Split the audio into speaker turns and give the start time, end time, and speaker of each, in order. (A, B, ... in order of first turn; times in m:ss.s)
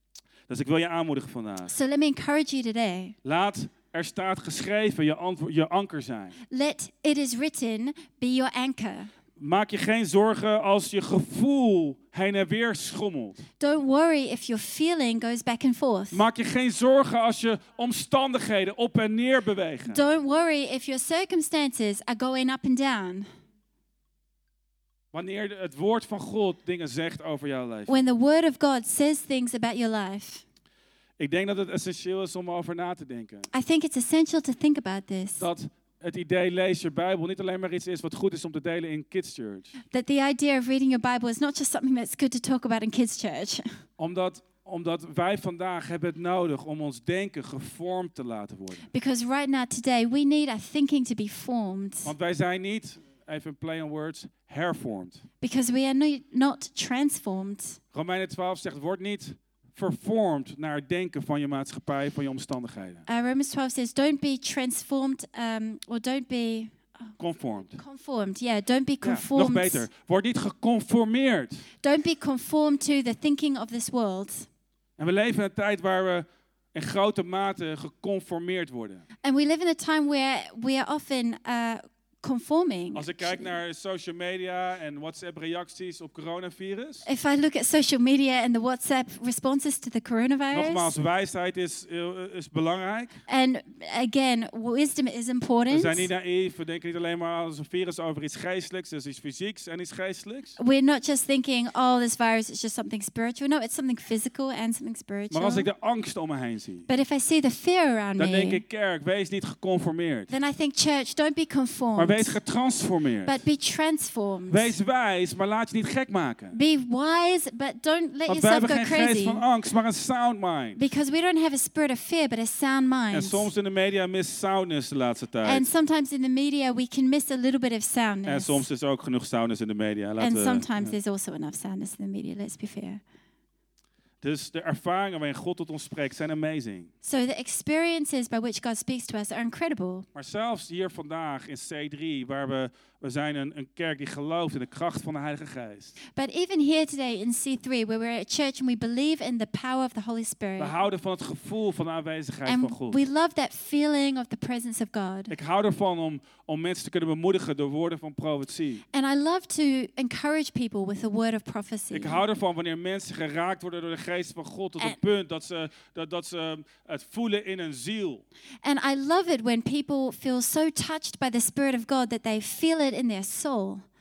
0:00.5-0:01.7 A
0:01.7-0:03.1 B
0:03.2-0:06.4 A
0:06.5-0:09.1 B
0:09.4-0:13.4 A
0:13.6-0:16.2 B
0:16.1-0:20.0 A
0:19.8-0:23.3 B
0:25.1-0:28.0 A
0:27.9-0:30.4 B
0:31.2-0:33.5 A
0:33.5-0:35.4 B
0:35.4-0:39.7 A
0:39.9-0:43.7 B
0:44.0-0:48.9 A
0:48.9-0:52.1 B
0:52.0-0:55.2 A
0:55.4-0:57.8 B
0:57.9-1:03.0 A
1:03.1-1:07.2 B
1:07.2-1:07.8 A
1:07.7-1:09.9 B
1:09.0-1:11.6 A
1:11.8-1:14.5 B
1:15.0-1:19.0 A
1:19.2-1:23.5 B
1:22.9-1:27.0 A
1:27.0-1:30.9 B
1:30.5-1:33.2 A
1:33.3-1:36.1 B
1:35.7-1:40.6 A
1:40.6-1:45.7 B
1:45.3-1:46.9 A
1:46.9-1:48.6 B
1:48.2-1:50.3 A
1:50.3-1:52.4 B
1:52.0-1:53.4 A
1:53.2-1:54.7 B
1:54.5-1:56.5 A
1:56.5-1:59.4 B
1:58.3-2:00.8 A
2:00.8-2:03.5 B
2:03.1-2:05.7 A
2:05.4-2:08.6 B
2:08.2-2:10.9 A
2:10.2-2:13.0 B
2:14.2-2:16.9 A
2:17.0-2:20.0 B
2:20.1-2:25.9 A
2:26.2-2:30.8 B
2:30.6-2:33.0 A
2:32.4-2:35.3 B
2:35.3-2:38.8 A
2:38.9-2:42.2 B
2:41.9-2:48.2 A
2:48.6-2:53.8 B